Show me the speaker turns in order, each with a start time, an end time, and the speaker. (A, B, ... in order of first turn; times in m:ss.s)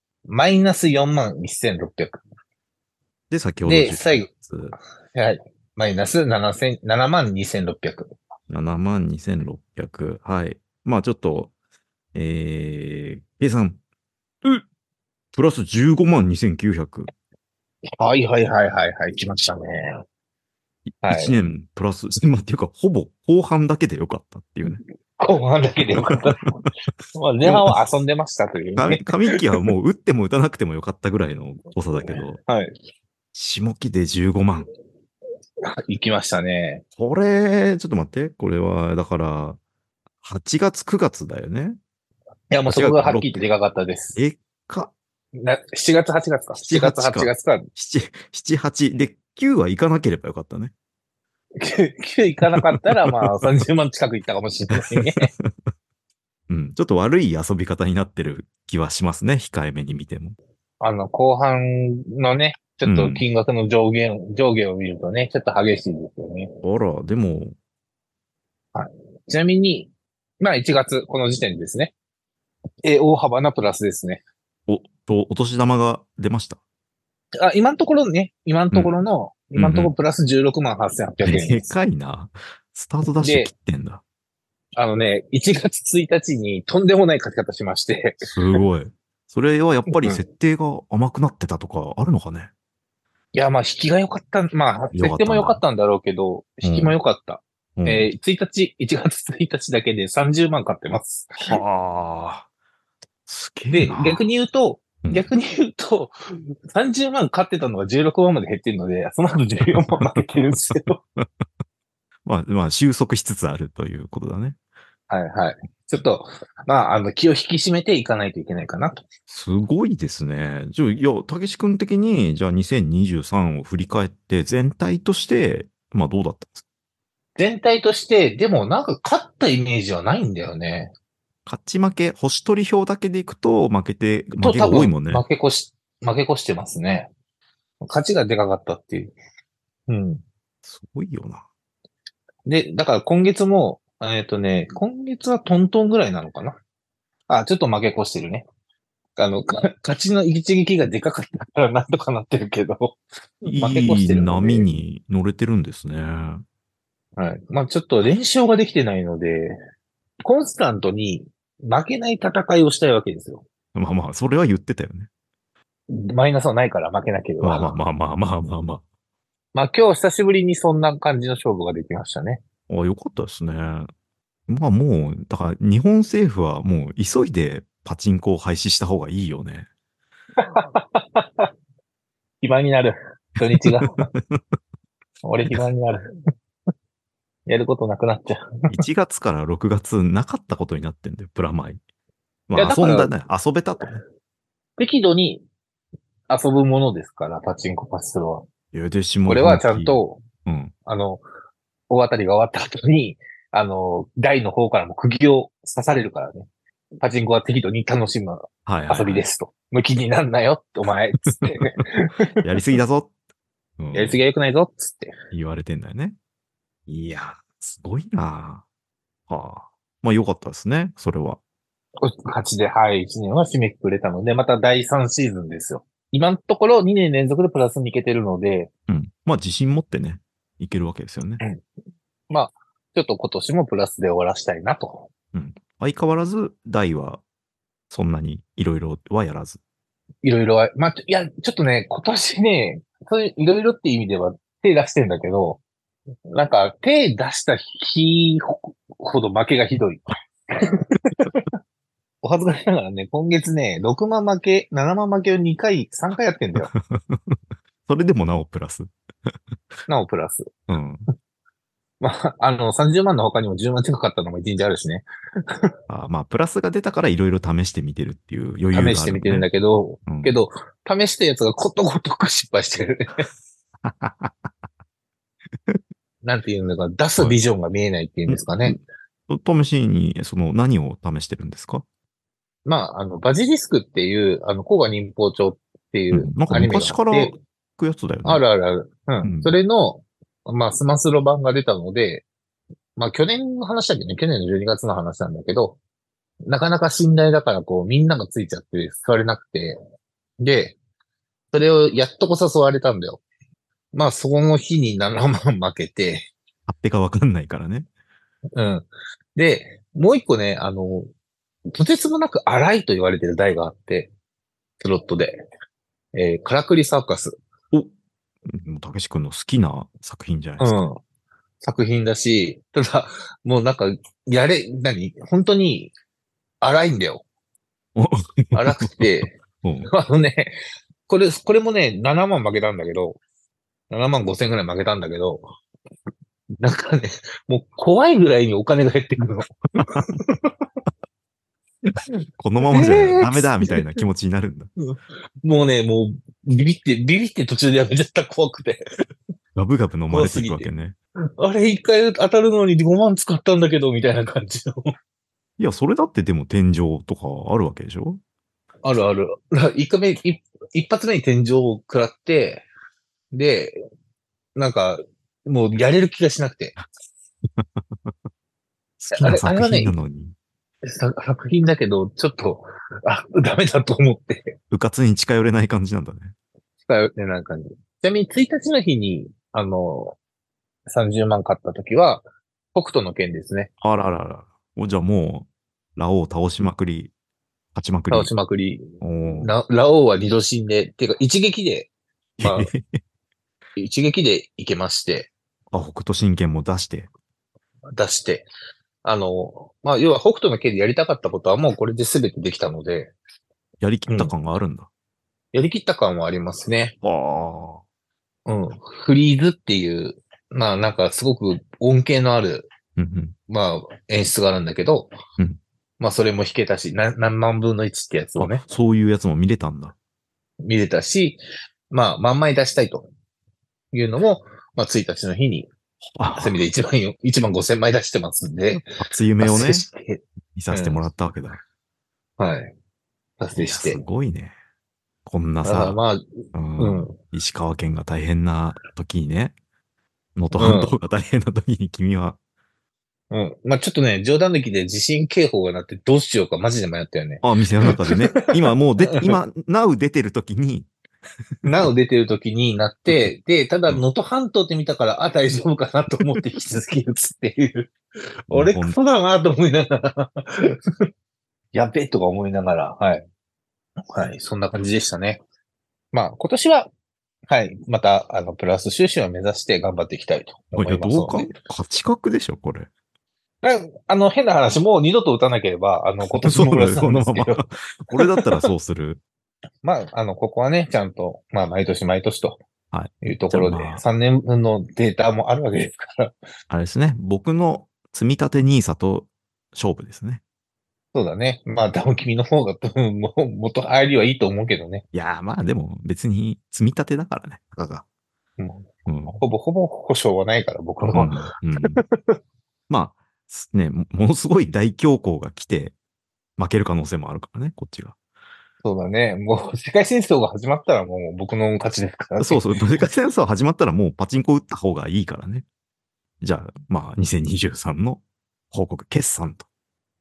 0:00.3-0:02.2 A
0:03.3-0:04.8 B
0:03.6-0:04.3 A
0:05.1-0:08.1 A
0:08.5-0:11.5 B
0:12.1-0:13.8 B
0:15.3-0:17.1 B
0:18.0-0:20.0 A
0:20.9-0:24.8 B
0:21.0-0:21.4 A
0:25.2-0:26.6 A
0:26.0-0:26.7 B
0:27.1-0:29.2 A
0:27.4-0:27.7 B
0:28.8-0:32.4 B
0:32.5-0:32.7 A
0:33.3-0:34.7 B
0:35.7-0:36.8 A
0:37.0-0:39.6 B
0:40.2-0:41.8 B
0:42.5-0:44.2 A
0:42.6-0:43.5 B
0:44.1-0:44.9 B
0:45.4-0:47.7 A
0:46.6-0:50.7 B
0:51.6-0:55.3 A
0:54.8-0:55.5 B
0:56.5-1:00.4 B
1:00.8-1:06.5 A
1:02.8-1:03.2 B
1:06.6-1:07.5 B
1:08.7-1:11.9 A
1:12.8-1:14.2 A
1:14.7-1:16.6 B
1:17.4-1:21.7 A
1:19.5-1:19.9 B
1:21.2-1:24.0 B
1:23.2-1:23.5 A
1:24.8-1:28.2 A
1:28.2-1:32.5 B
1:29.9-1:30.2 A
1:33.3-1:41.6 A
1:34.9-1:35.6 B
1:36.6-1:37.0 B
1:37.8-1:38.1 B
1:41.5-1:42.4 B
1:43.2-1:44.2 B
1:43.7-1:46.2 A
1:45.0-1:45.3 B
1:46.7-1:51.0 A
1:52.2-1:54.6 B
1:55.1-1:59.0 A
1:59.3-2:06.6 B
2:07.4-2:10.9 A
2:11.4-2:15.2 B
2:14.4-2:17.1 A
2:17.8-2:19.1 A
2:19.9-2:20.2 A
2:20.6-2:21.4 B
2:22.4-2:26.6 A
2:27.3-2:28.4 A
2:29.2-2:34.7 A
2:33.4-2:36.4 B
2:37.2-2:39.6 A
2:40.2-2:43.4 A
2:43.7-2:45.1 B
2:45.9-2:47.8 A
2:47.4-2:48.8 B
2:49.5-2:52.4 A
2:52.7-2:53.9 B
2:54.5-2:59.7 B
3:00.4-3:01.5 A
3:02.4-3:04.1 A
3:03.8-3:04.4 B
3:05.2-3:06.0 A
3:07.5-3:08.4 A
3:08.7-3:11.8 B
3:12.5-3:14.0 B
3:12.5-3:13.1 A
3:14.8-3:15.4 A
3:16.3-3:18.5 A
3:18.7-3:20.7 B
3:19.3-3:20.2 A
3:20.9-3:21.2 A
3:21.9-3:26.5 A
3:27.0-3:32.4 A
3:28.6-3:29.2 B
3:32.4-3:33.1 B
3:33.8-3:34.2 B
3:33.9-3:35.1 A
3:35.3-3:36.2 B
3:36.9-3:38.6 B
3:39.3-3:41.4 B
3:42.0-3:48.7 A
3:48.9-3:51.4 B
3:52.3-3:55.1 A
3:55.3-3:57.2 B
3:57.9-3:59.6 B
4:00.2-4:05.6 A
4:06.3-4:11.5 A
4:12.2-4:16.7 A
4:16.7-4:18.9 B
4:19.9-4:20.5 A
4:20.7-4:21.0 B
4:22.0-4:25.7 A
4:25.9-4:29.5 B
4:28.7-4:33.3 A
4:30.0-4:30.4 B
4:33.8-4:34.5 B
4:36.2-4:38.8 A
4:38.3-4:41.8 B
4:42.6-4:47.3 A
4:46.1-4:48.4 B
4:48.2-4:52.2 A
4:49.2-4:49.5 B
4:53.0-4:55.8 A
4:56.4-4:59.8 A
5:00.4-5:00.8 A
5:01.5-5:03.2 A
5:03.9-5:06.3 A
5:06.7-5:07.9 B
5:08.6-5:11.1 A
5:11.7-5:14.1 A
5:14.8-5:15.4 A
5:16.1-5:17.4 A
5:18.5-5:20.8 B
5:20.6-5:21.0 A
5:21.6-5:25.9 A
5:26.6-5:27.2 A
5:28.0-5:29.1 B
5:28.5-5:33.2 A
5:29.6-5:29.9 B
5:33.9-5:35.4 A
5:36.6-5:40.5 A
5:42.4-5:44.7 B
5:42.7-5:43.9 A
5:44.8-5:48.8 A
5:49.6-5:51.0 B
5:50.1-5:50.7 A
5:51.4-5:54.9 A
5:55.6-5:58.2 B
5:58.8-6:02.6 A
6:03.3-6:03.8 A
6:04.6-6:06.8 A
6:09.0-6:10.3 B
6:09.2-6:09.9 A
6:10.8-6:14.6 A
6:14.7-6:16.3 B
6:16.9-6:20.2 A
6:20.9-6:23.7 A
6:23.8-6:27.1 B
6:27.7-6:28.3 B
6:28.1-6:32.7 A
6:29.0-6:29.5 B
6:32.4-6:33.0 B
6:33.8-6:35.3 A
6:35.7-6:37.1 B
6:38.0-6:38.5 A
6:39.0-6:43.1 A
6:43.8-6:44.9 B
6:44.1-6:44.3 A
6:45.5-6:47.0 A
6:47.0-6:47.8 B
6:48.4-6:52.7 A
6:53.0-6:53.3 B
6:53.5-6:55.1 A
6:56.0-6:58.6 A
6:58.4-7:00.0 B
7:00.6-7:03.1 A
7:03.9-7:05.7 A
7:06.2-7:06.6 B
7:06.3-7:08.9 A
7:08.8-7:09.8 B
7:09.4-7:11.0 A
7:10.5-7:11.6 B
7:12.4-7:12.7 A
7:13.4-7:14.0 A
7:13.6-7:14.5 B
7:15.2-7:16.0 B
7:15.6-7:16.2 A
7:16.5-7:19.5 B
7:16.8-7:17.2 A
7:20.4-7:22.4 B
7:20.5-7:20.9 A
7:23.3-7:27.4 A
7:27.4-7:30.9 B
7:31.6-7:38.0 A
7:38.5-7:40.8 A
7:38.5-7:39.0 B
7:41.7-7:43.2 A
7:44.1-7:45.4 A
7:46.1-7:46.9 A
7:47.5-7:51.5 A
7:50.7-7:52.9 B
7:53.6-7:57.7 A
7:56.4-7:59.2 B
7:59.8-8:02.6 A
8:02.9-8:04.0 B
8:03.2-8:06.3 A
8:06.7-8:10.4 B
8:11.1-8:15.0 A
8:15.1-8:18.0 B
8:18.6-8:21.3 A
8:19.0-8:19.4 B
8:21.1-8:22.0 B
8:21.8-8:22.4 A
8:22.9-8:25.9 B
8:26.6-8:28.2 B
8:28.8-8:32.7 A
8:32.4-8:35.6 B
8:36.4-8:39.6 B